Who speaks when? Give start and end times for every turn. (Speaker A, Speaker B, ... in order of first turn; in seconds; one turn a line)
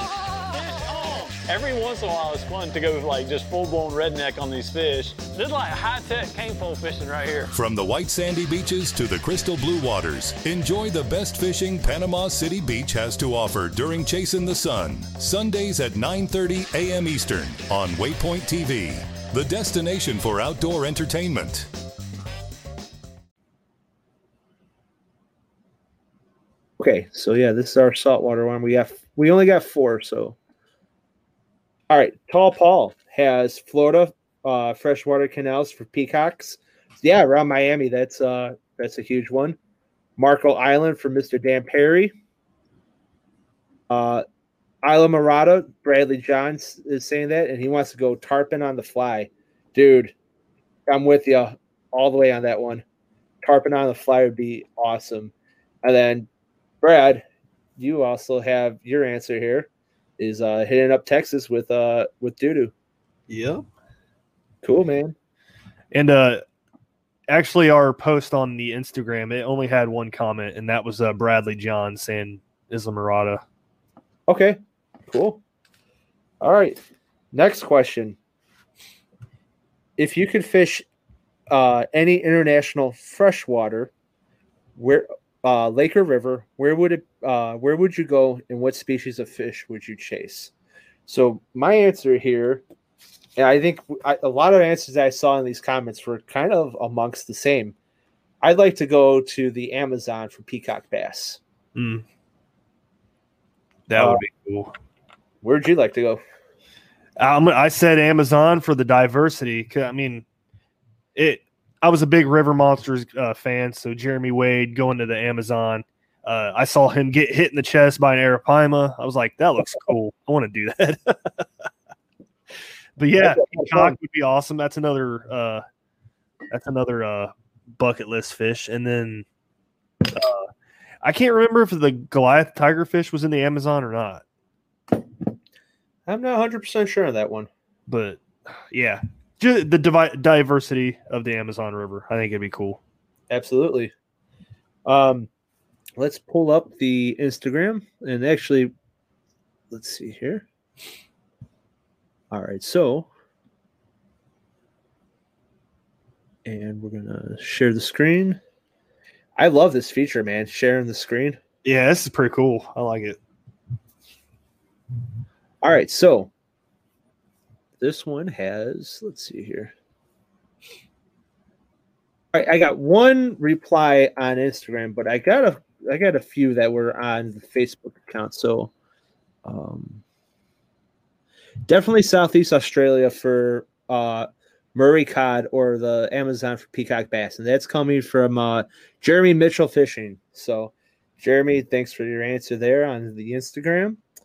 Speaker A: 0.5-7.5
Speaker B: 7.5-21.7
Speaker C: 26.8-30.4
Speaker C: 31.9-39.6
Speaker C: 40.2-42.1
Speaker C: 43.9-44.2
Speaker C: 44.8-50.1
Speaker C: 50.9-52.8
Speaker C: 53.4-56.3
Speaker C: 56.8-57.2
Speaker C: 57.8-59.7
Speaker C: 60.2-62.7
Speaker D: 63.3-63.6
Speaker C: 64.6-65.1
Speaker D: 65.9-66.4
Speaker D: 67.3-73.4
Speaker C: 74.3-75.4
Speaker C: 76.4-76.8
Speaker C: 77.3-78.2
Speaker C: 80.0-80.8
Speaker C: 81.5-83.9
Speaker C: 84.8-90.5
Speaker C: 91.1-92.6
Speaker C: 93.4-97.7
Speaker C: 98.4-101.4
Speaker D: 101.7-102.0
Speaker D: 103.9-104.7
Speaker C: 104.0-104.2
Speaker C: 105.4-106.2
Speaker D: 107.2-110.2
Speaker D: 111.2-121.4
Speaker D: 123.0-125.6
Speaker C: 123.2-124.0
Speaker D: 126.5-129.2
Speaker D: 130.1-130.5
Speaker D: 131.0-134.2
Speaker C: 136.1-137.5
Speaker D: 137.9-142.8
Speaker C: 143.3-143.9
Speaker C: 144.8-145.3
Speaker C: 146.0-148.7
Speaker C: 149.7-150.4
Speaker C: 152.3-153.1
Speaker C: 156.4-158.4
Speaker C: 159.4-161.4
Speaker D: 161.6-163.2
Speaker C: 165.6-166.3
Speaker C: 167.8-169.7
Speaker C: 172.3-178.7
Speaker C: 179.4-180.0
Speaker C: 181.7-194.0